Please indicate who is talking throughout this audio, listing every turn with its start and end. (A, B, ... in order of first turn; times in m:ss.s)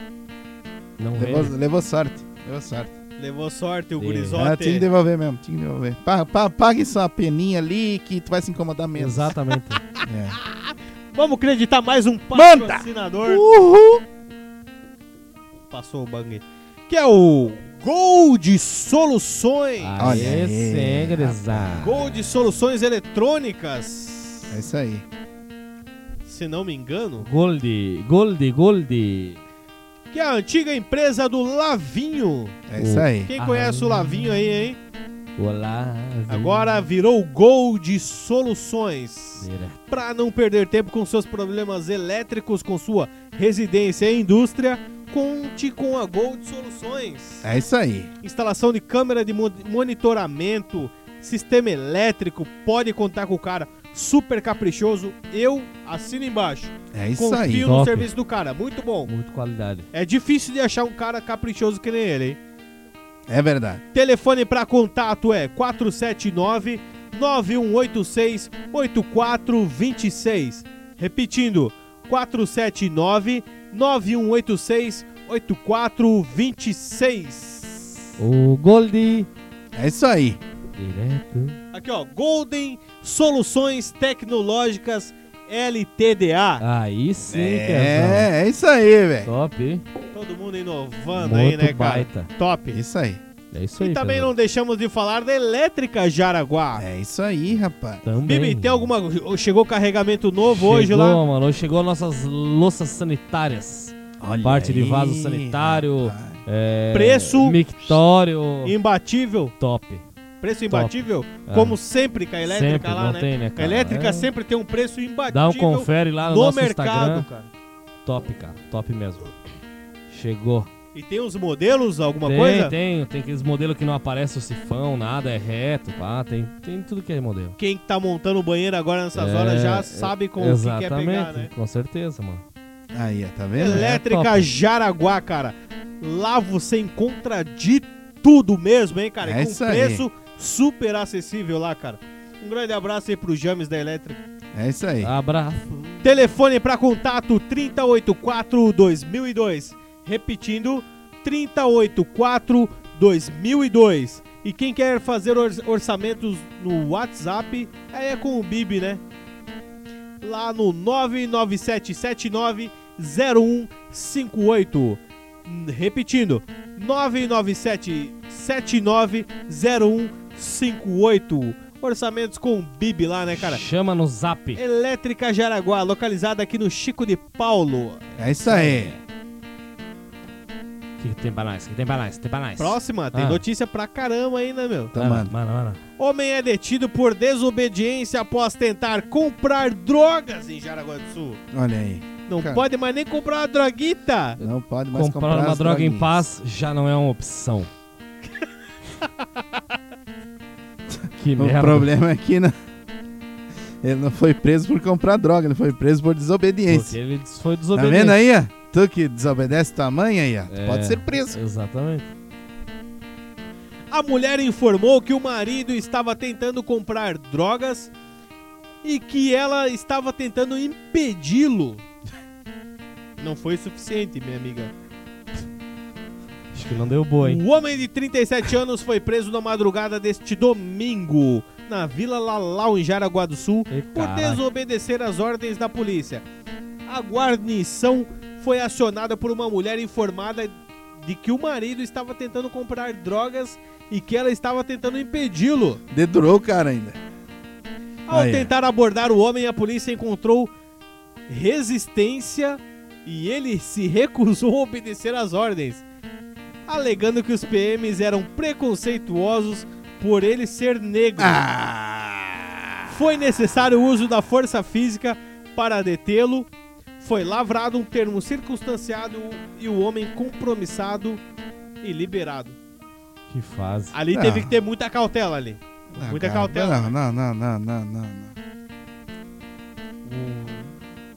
0:01.0-0:01.5 A
0:01.2-0:02.9 B
0:03.2-0:04.9 C
0:04.0-0:04.4 A
0:04.3-0:09.3 B
0:09.0-0:09.8 A
0:10.0-0:10.4 B
0:10.4-0:13.4 C
0:12.3-0:14.0 B
0:15.7-0:20.0 C
0:19.8-0:22.0 A
0:20.0-0:21.9 B
0:21.8-0:24.5 C
0:24.5-0:25.0 B
0:26.2-0:27.3 C
0:27.2-0:29.4 A
0:30.1-0:32.6 C
0:32.7-0:33.3 B
0:32.8-0:34.5 A
0:33.3-0:34.8 C
0:35.4-0:36.8 A
0:36.3-0:47.5 C
0:39.4-0:39.8 A
0:47.4-0:48.1 B
0:48.2-0:59.1 C
0:56.9-0:57.7 B
0:57.6-0:58.1 A
0:59.1-0:59.9 A
0:59.9-1:02.4 C
1:03.3-1:03.8 B
1:03.9-1:18.1 C
1:18.2-1:19.3 A
1:19.7-1:20.4 B
1:20.8-1:21.6 A
1:21.7-1:26.6 C
1:26.6-1:28.3 A
1:27.3-1:29.3 B
1:29.2-1:29.8 A
1:30.1-1:32.8 C
1:31.1-1:32.3 A
1:32.7-1:33.2 B
1:33.5-1:34.3 A
1:33.8-1:36.8 C
1:36.7-1:38.0 B
1:38.0-1:38.9 A
1:38.2-1:41.2 C
1:40.4-1:48.7 A
1:44.2-1:46.4 B
1:46.9-1:47.6 C
1:48.6-1:49.5 C
1:49.6-1:50.0 A
1:50.4-1:57.5 C
1:50.7-1:51.8 A
1:52.4-1:54.3 A
1:55.3-1:57.2 A
1:58.0-1:59.3 A
2:00.1-2:00.7 A
2:00.9-2:02.7 C
2:02.2-2:07.6 A
2:07.6-2:11.5 C
2:09.1-2:12.4 A
2:12.9-2:13.8 B
2:13.6-2:24.2 C
2:13.6-2:14.5 A
2:19.2-2:20.0 B
2:24.5-2:25.1 B
2:25.0-2:25.7 A
2:26.0-2:39.0 C
2:40.2-2:53.6 C
2:53.3-2:54.6 A
2:54.6-2:58.1 C
2:58.2-2:59.0 B
2:58.5-2:58.9 A
3:01.0-3:03.4 A
3:02.6-3:04.9 C
3:04.9-3:05.3 B
3:04.9-3:05.8 A
3:06.0-3:11.4 C
3:11.5-3:12.6 B
3:12.3-3:14.4 C
3:14.4-3:16.2 B
3:14.4-3:17.7 A
3:20.9-3:22.5 B
3:21.2-3:21.9 A
3:23.8-3:27.0 B
3:26.7-3:28.2 A
3:27.7-3:31.4 B
3:30.5-3:32.1 A
3:33.9-3:37.9 C
3:38.8-3:41.8 C
3:43.2-3:44.7 C
3:46.5-3:47.4 A
3:47.2-3:56.2 C
3:53.7-3:54.4 A
3:56.9-4:05.8 C
4:05.9-4:07.0 B
4:08.1-4:10.5 C
4:08.1-4:08.5 B
4:11.3-4:15.8 C
4:16.7-4:21.4 C
4:21.2-4:23.0 B
4:22.9-4:26.5 C
4:27.0-4:31.2 C
4:31.8-4:32.6 C
4:33.3-4:33.9 A
4:33.9-4:36.9 C
4:34.1-4:34.5 B
4:35.9-4:38.3 B
4:40.1-4:40.6 C